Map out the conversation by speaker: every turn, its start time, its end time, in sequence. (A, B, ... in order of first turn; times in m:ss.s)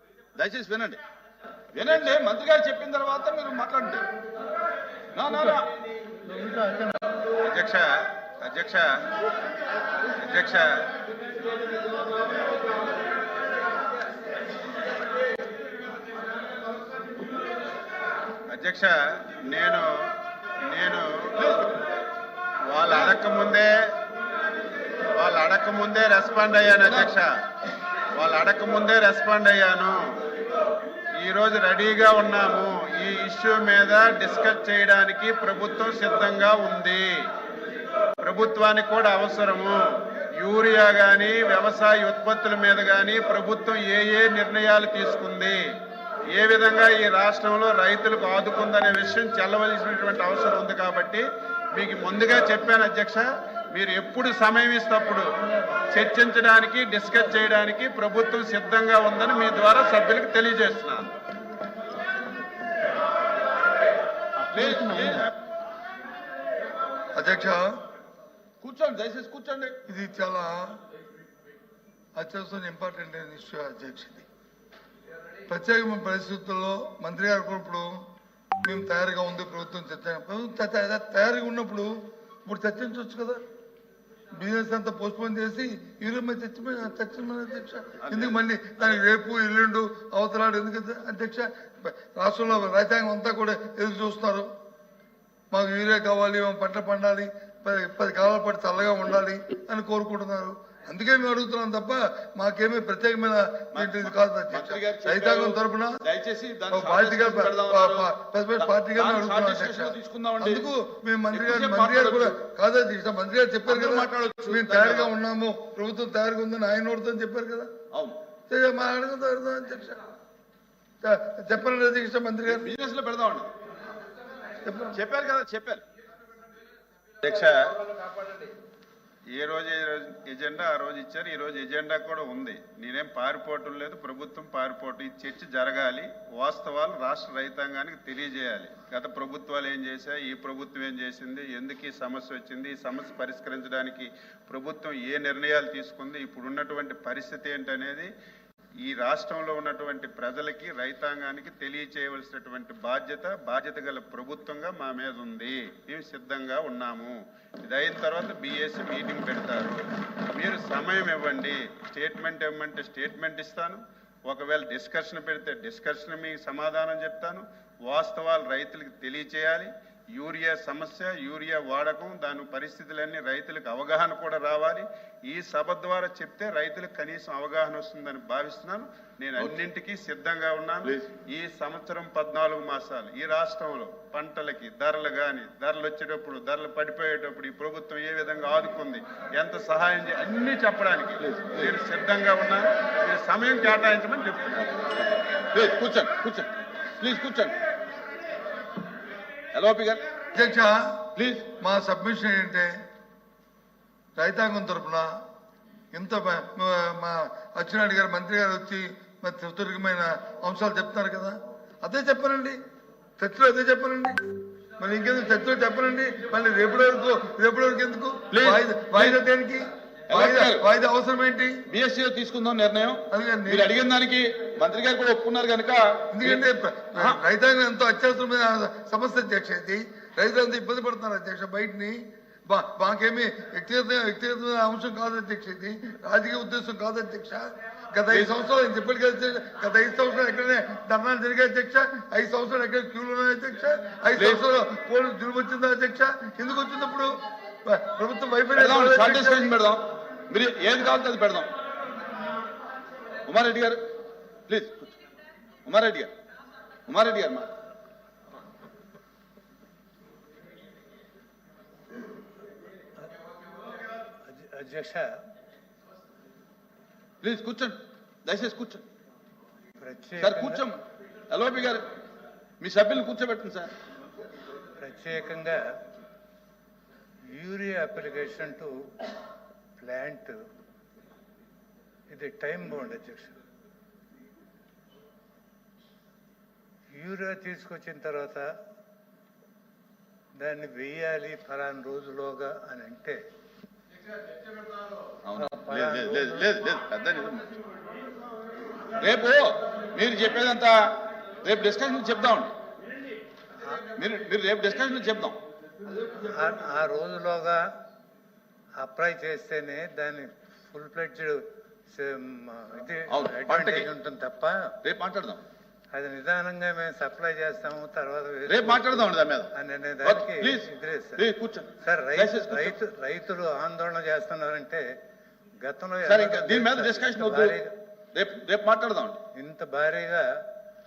0:00.4-0:01.0 A
0:01.7-0:04.0 A
0:05.1-0:05.7 A
0:07.4-0:08.9 B
0:10.2-0:10.9 B
0:18.5-0:19.9 B
0:20.7-0:21.6 B
0:22.7-0:23.7 B
0:25.2-0:27.3 B
0:28.2-0:30.0 B
0:31.2-0:37.2 B
0:38.2-0:45.6 B
0:46.3-0:55.3 B
0:55.9-1:01.1 B
1:04.5-1:05.3 A
1:07.2-1:07.7 C
1:08.6-1:09.8 A
1:09.9-1:10.7 C
1:12.2-1:14.3 C
1:15.5-1:18.0 C
1:18.6-1:21.9 C
1:22.4-1:23.4 C
1:24.4-1:34.5 C
1:28.0-1:29.0 A
1:35.5-1:45.9 C
1:43.7-1:50.7 A
1:46.7-1:57.7 C
1:51.3-1:52.4 A
1:53.7-1:55.1 A
1:57.9-1:58.2 A
1:58.5-2:00.0 C
2:01.0-2:02.8 C
2:02.5-2:03.5 A
2:04.6-2:05.0 C
2:04.9-2:05.8 A
2:07.2-2:07.8 B
2:09.3-2:28.1 B
2:28.8-2:39.8 B
2:40.4-3:14.9 B
3:00.8-3:01.1 A
3:11.2-3:11.7 A
3:15.5-3:17.6 A
3:19.5-3:20.0 A
3:20.3-3:21.0 C
3:21.2-3:21.5 A
3:21.6-3:22.7 C
3:24.2-3:25.1 C
3:25.9-3:32.6 C
3:33.2-3:34.2 C
3:34.8-3:41.6 C
3:38.3-3:39.2 A
3:40.1-3:40.6 A
3:41.7-3:47.2 A
3:43.1-3:43.8 C
3:46.1-4:07.1 C
4:04.2-4:04.4 A
4:07.6-4:09.6 C
4:08.6-4:11.5 A
4:13.3-4:13.8 A
4:14.5-4:14.9 A
4:15.6-4:16.1 A
4:16.9-4:17.5 A
4:24.2-4:25.2 D
4:27.2-4:28.8 A
4:29.8-4:30.6 D
4:30.2-4:31.8 A
4:32.6-4:33.7 A
4:34.8-4:35.7 D
4:37.3-4:39.1 D
4:39.8-4:40.4 D
4:42.1-4:43.4 D
4:47.0-4:48.5 D
4:50.4-4:53.2 D
4:55.2-4:57.5 A
4:55.4-4:56.5 D
4:59.0-5:02.5 A
5:03.9-5:05.4 A
5:06.1-5:07.6 D
5:08.8-5:11.4 D
5:11.9-5:14.8 D
5:13.1-5:13.9 A
5:14.8-5:15.4 A
5:15.9-5:21.2 D
5:18.5-5:19.5 A
5:20.0-5:22.8 A
5:21.8-5:24.8 D
5:25.6-5:27.7 D
5:26.1-5:27.6 A
5:28.1-5:29.2 A
5:29.3-5:30.2 D